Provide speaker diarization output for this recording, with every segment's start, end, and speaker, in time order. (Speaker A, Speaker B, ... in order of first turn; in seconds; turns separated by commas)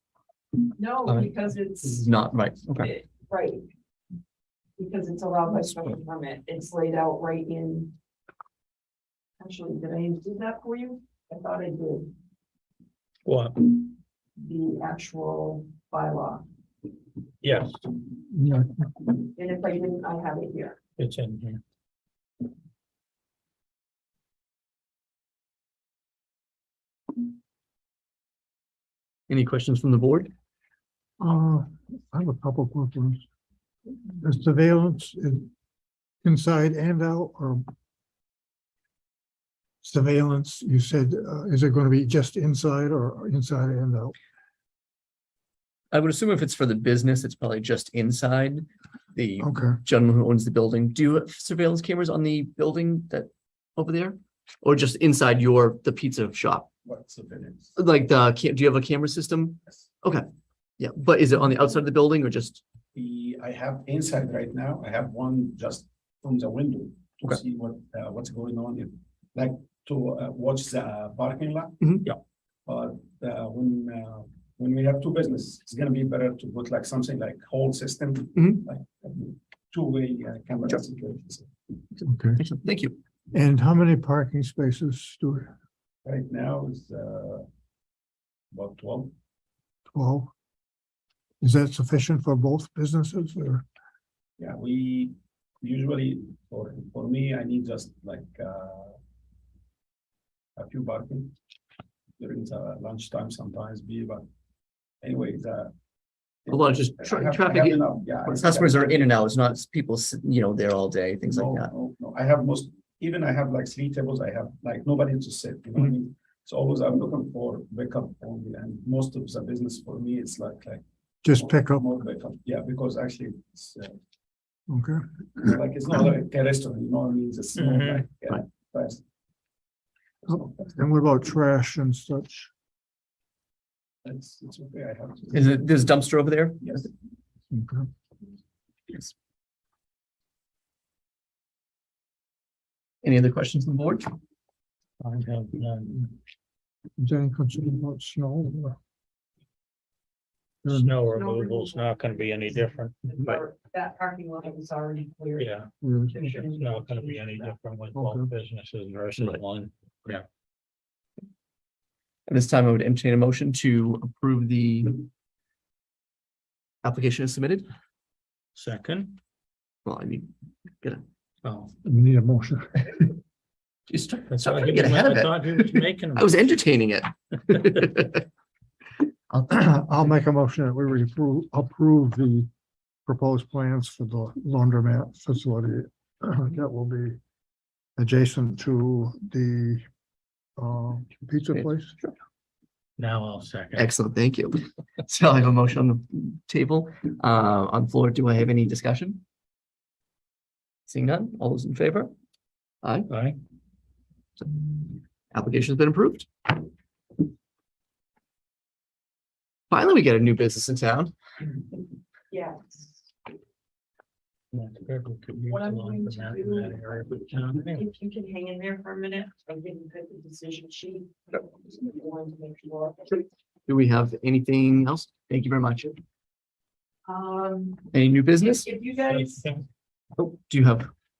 Speaker A: 0.8-3.7, Speaker B: 1.1-2.9, Speaker A: 4.8-8.0, Speaker A: 9.4-12.1, Speaker C: 13.2-13.9, Speaker A: 14.4-16.4, Speaker C: 17.4-17.8, Speaker D: 18.3-18.9, Speaker A: 19.4-20.8, Speaker C: 21.0-21.6, Speaker B: 29.3-30.3, Speaker D: 31.2-33.2, Speaker D: 34.1-35.5, Speaker D: 36.2-37.6, Speaker D: 39.8-44.1, Speaker B: 45.9-56.7, Speaker D: 49.4-49.8, Speaker E: 56.8-57.7, Speaker B: 57.8-60.2, Speaker B: 60.8-62.6, Speaker E: 62.9-71.9, Speaker B: 71.8-72.1, Speaker E: 72.7-81.5, Speaker B: 78.3-78.6, Speaker D: 82.0-82.5, Speaker B: 82.4-82.9, Speaker D: 83.3-85.5, Speaker E: 86.0-87.5, Speaker E: 88.5-89.1, Speaker D: 89.9-90.3, Speaker D: 91.4-93.6, Speaker E: 94.4-99.0, Speaker E: 100.5-101.3, Speaker E: 102.2-104.2, Speaker E: 105.0-105.7, Speaker E: 106.5-109.0, Speaker B: 106.5-111.7, Speaker E: 111.2-120.8, Speaker D: 121.2-121.9, Speaker E: 121.3-124.0, Speaker D: 124.7-125.5, Speaker E: 125.4-129.0, Speaker C: 127.5-128.0, Speaker E: 130.3-130.7, Speaker D: 130.3-132.5, Speaker E: 134.0-135.7, Speaker B: 135.3-136.8, Speaker E: 136.6-136.9, Speaker D: 137.5-137.9, Speaker B: 143.0-144.1, Speaker C: 145.0-146.1, Speaker D: 147.0-148.8, Speaker D: 150.6-151.0, Speaker C: 150.6-153.1, Speaker A: 151.2-155.5, Speaker C: 155.4-160.2, Speaker D: 155.8-156.2, Speaker A: 156.1-157.5, Speaker D: 157.9-158.3, Speaker B: 162.3-165.1, Speaker B: 166.8-167.7, Speaker C: 168.5-169.2, Speaker B: 169.8-170.3, Speaker C: 171.4-171.7, Speaker D: 171.8-173.1, Speaker B: 173.9-178.2, Speaker C: 174.3-176.5, Speaker D: 179.5-182.5, Speaker D: 183.1-187.2, Speaker D: 188.0-189.8, Speaker D: 190.6-191.9, Speaker B: 191.5-192.1, Speaker C: 193.0-193.9, Speaker B: 193.7-199.2, Speaker B: 200.9-202.1, Speaker B: 202.8-203.1, Speaker C: 203.1-203.4, Speaker B: 204.4-206.6, Speaker B: 209.7-211.1, Speaker A: 212.3-213.1, Speaker C: 214.5-217.9, Speaker A: 215.5-217.1, Speaker A: 217.6-223.3, Speaker B: 223.7-225.9, Speaker A: 227.0-227.9, Speaker B: 227.9-228.7, Speaker A: 228.4-229.5, Speaker C: 229.0-229.6, Speaker B: 230.2-230.9